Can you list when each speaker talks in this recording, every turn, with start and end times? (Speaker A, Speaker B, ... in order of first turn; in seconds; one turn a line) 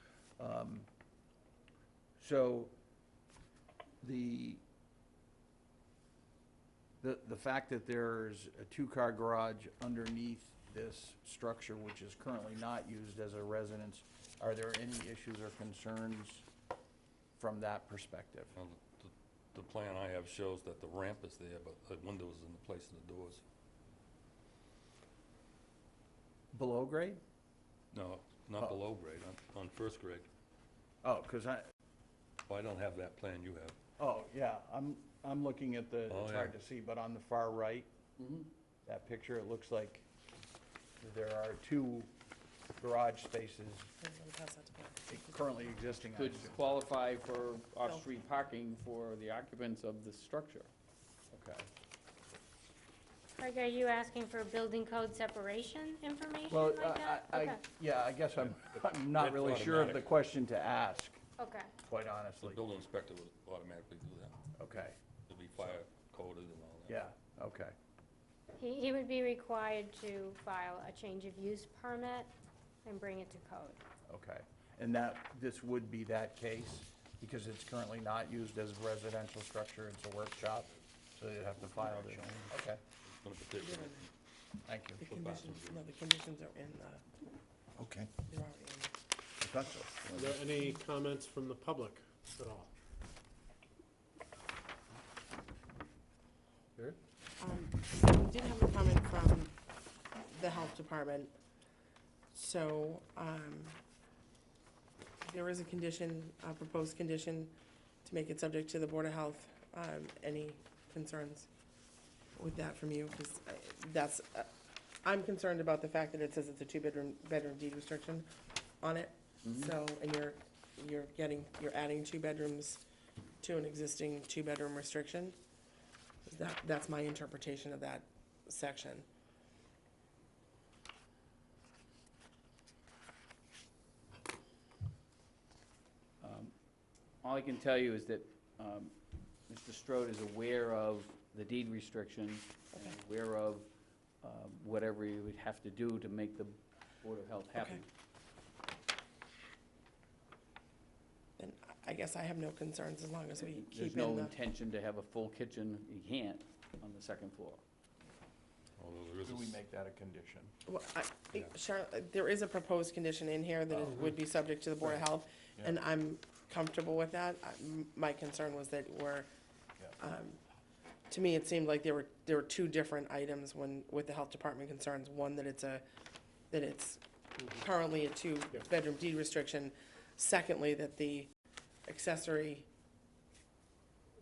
Speaker A: 0.4-0.9
Speaker A: 2.2-2.7
Speaker A: 4.0-4.6
Speaker A: 7.0-16.5
Speaker A: 17.4-18.6
Speaker B: 18.6-23.4
Speaker A: 26.5-27.2
Speaker B: 27.9-30.3
Speaker A: 31.0-31.6
Speaker B: 32.5-33.8
Speaker A: 34.0-37.9
Speaker B: 36.1-36.5
Speaker C: 38.2-38.5
Speaker A: 38.9-40.1
Speaker A: 41.0-42.1
Speaker A: 42.8-43.9
Speaker D: 44.0-45.4
Speaker A: 45.1-46.6
Speaker C: 46.1-50.7
Speaker A: 51.3-51.7
Speaker E: 53.4-57.6
Speaker A: 56.5-61.2
Speaker B: 59.2-60.1
Speaker E: 61.4-61.7
Speaker A: 61.8-62.6
Speaker B: 62.4-64.3
Speaker A: 64.6-65.0
Speaker B: 65.3-67.0
Speaker A: 66.9-67.8
Speaker E: 68.6-72.3
Speaker E: 72.8-73.8
Speaker A: 74.1-82.8
Speaker B: 81.8-82.5
Speaker B: 83.0-84.1
Speaker D: 83.6-84.0
Speaker A: 84.7-85.0
Speaker D: 85.0-87.0
Speaker B: 85.0-85.9
Speaker A: 87.8-88.1
Speaker D: 88.3-88.9
Speaker A: 89.4-90.4
Speaker F: 90.1-92.7
Speaker D: 97.4-99.5
Speaker D: 100.2-101.3
Speaker D: 102.3-103.8
Speaker D: 105.2-111.5
Speaker D: 112.3-114.5
Speaker D: 115.0-118.3
Speaker D: 118.8-122.8
Speaker D: 123.4-125.4
Speaker D: 126.2-129.1
Speaker C: 136.2-136.5
Speaker C: 137.2-138.9
Speaker C: 139.5-143.7
Speaker C: 144.2-147.9
Speaker D: 147.6-147.8
Speaker D: 151.4-154.3
Speaker C: 153.4-157.6
Speaker B: 158.8-159.6
Speaker A: 159.2-160.5
Speaker D: 160.7-169.3
Speaker D: 170.0-170.4
Speaker D: 171.1-175.8
Speaker D: 176.5-181.3
Speaker D: 181.9-182.7